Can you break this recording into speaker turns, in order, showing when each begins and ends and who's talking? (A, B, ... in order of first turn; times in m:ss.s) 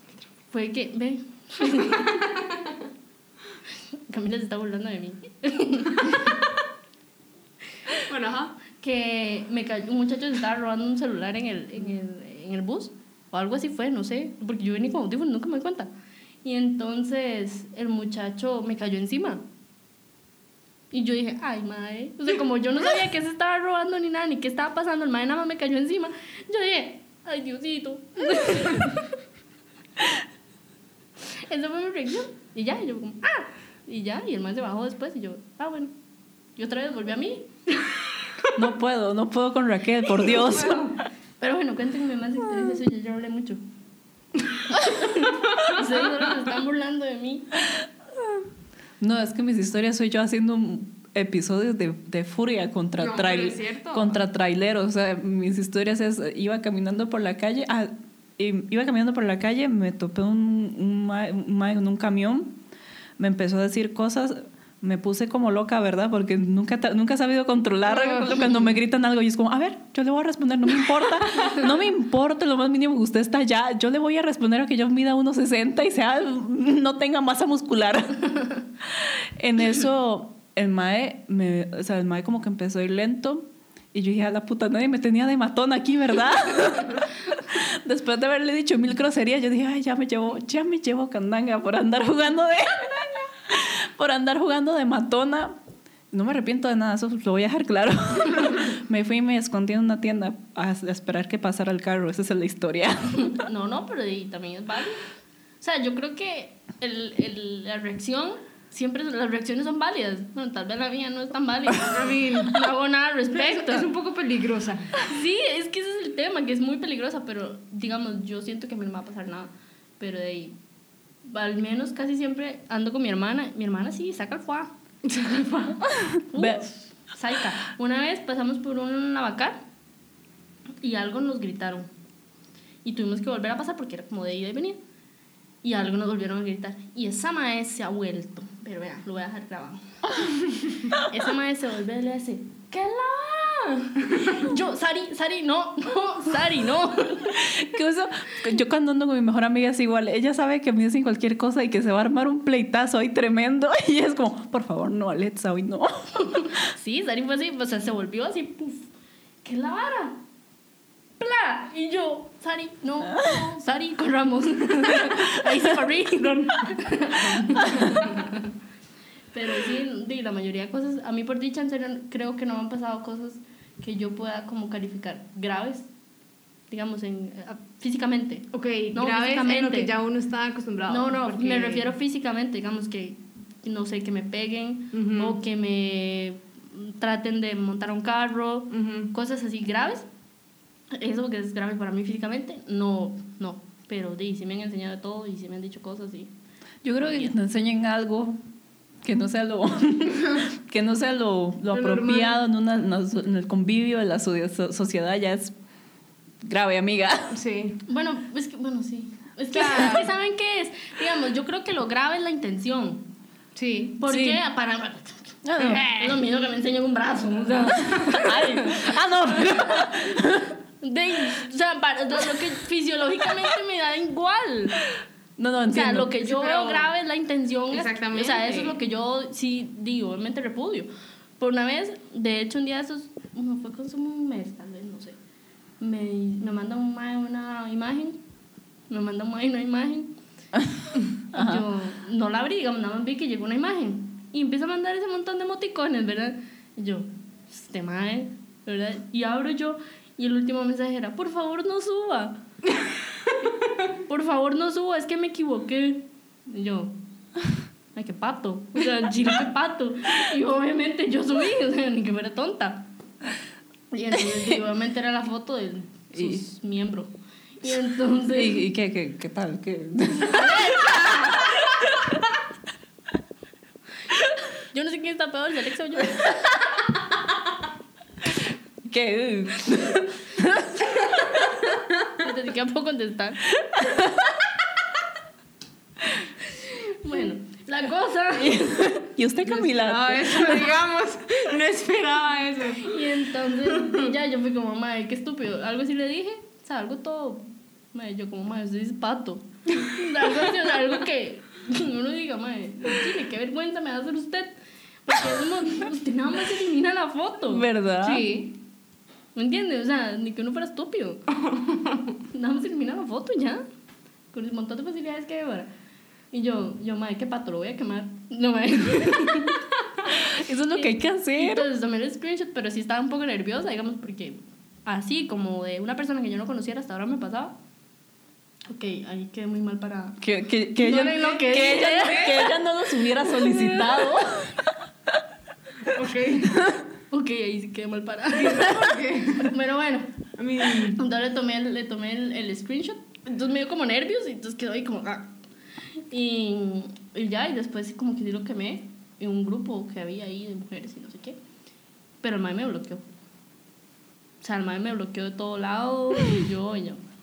0:00.5-0:02.3 A
0:02.0-0:02.4 B
0:04.1-0:06.4 A
0:08.0-0:08.5 B
0:08.8-0:15.9 A
0:16.4-0:19.4 A
0:20.9-0:29.1 A
0:31.2-0:35.9 A
0:36.6-0:37.9 A
0:38.6-0:41.0 C
0:40.6-0:40.8 B
0:41.4-0:43.6 A
0:44.7-0:47.6 A
0:49.0-1:02.6 C
0:53.0-0:54.2 B
1:03.2-1:35.6 C
1:07.9-1:08.7 B
1:36.1-1:43.4 C
1:43.2-1:45.0 A
1:45.6-1:53.9 A
1:51.9-1:52.7 B
1:53.3-1:55.0 B
1:55.0-2:00.6 A
2:01.2-2:04.7 A
2:05.1-2:05.7 B
2:06.3-2:09.6 A
2:06.3-2:06.6 C
2:10.8-2:11.9 A
2:12.8-2:14.8 A
2:15.6-2:20.1 A
2:20.9-2:27.4 A
2:27.2-2:36.5 C
2:36.3-2:38.9 A
2:39.4-2:40.2 A
2:41.2-2:48.5 A
2:43.0-2:43.4 C
2:46.2-2:46.7 B
2:49.3-2:55.9 A
2:56.7-2:59.9 A
2:58.5-3:01.9 B
3:00.9-3:10.1 A
3:04.9-3:05.4 B
3:08.7-3:09.1 B
3:10.9-3:16.3 A
3:16.8-3:18.4 C
3:17.0-3:17.3 A
3:19.0-3:25.5 C
3:21.7-3:22.4 B
3:26.4-3:27.4 C
3:27.3-3:27.8 B
3:27.9-3:33.0 A
3:29.5-3:30.1 B
3:33.5-3:34.0 B
3:34.0-3:40.2 A
3:34.0-3:34.4 C
3:35.4-3:36.2 C
3:37.9-3:40.5 C
3:40.8-3:44.8 A
3:45.4-3:46.4 C
3:45.7-3:55.2 A
3:46.3-3:46.9 B
3:47.7-3:48.8 B
3:55.8-3:58.2 A
3:58.9-4:00.1 A
4:00.5-4:01.6 C
4:01.3-4:12.4 A
4:14.1-4:16.9 A
4:17.9-4:22.9 A
4:23.9-4:28.6 A
4:26.1-4:26.4 C
4:28.3-4:32.1 C
4:30.2-4:31.6 A
4:34.5-4:36.6 A
4:38.2-4:41.0 C
4:42.2-4:43.5 A
4:43.6-4:44.3 C
4:46.4-4:49.0 A
4:48.3-4:50.8 C
4:49.6-4:54.1 B
4:52.8-5:07.6 A
5:07.5-5:08.3 C
5:08.0-5:08.5 B
5:09.3-5:11.2 A
5:11.4-5:12.1 B
5:12.3-5:13.6 A
5:14.3-5:15.7 A
5:16.3-5:27.6 A
5:20.1-5:21.6 C
5:28.7-5:30.2 A
5:30.2-5:35.1 C
5:30.8-5:34.5 A
5:31.1-5:32.5 B
5:35.8-5:36.6 B
5:37.1-5:45.3 A
5:38.3-5:39.5 B
5:40.4-5:41.0 B
5:45.9-5:51.4 A
5:52.2-5:53.0 A
5:54.4-5:57.0 A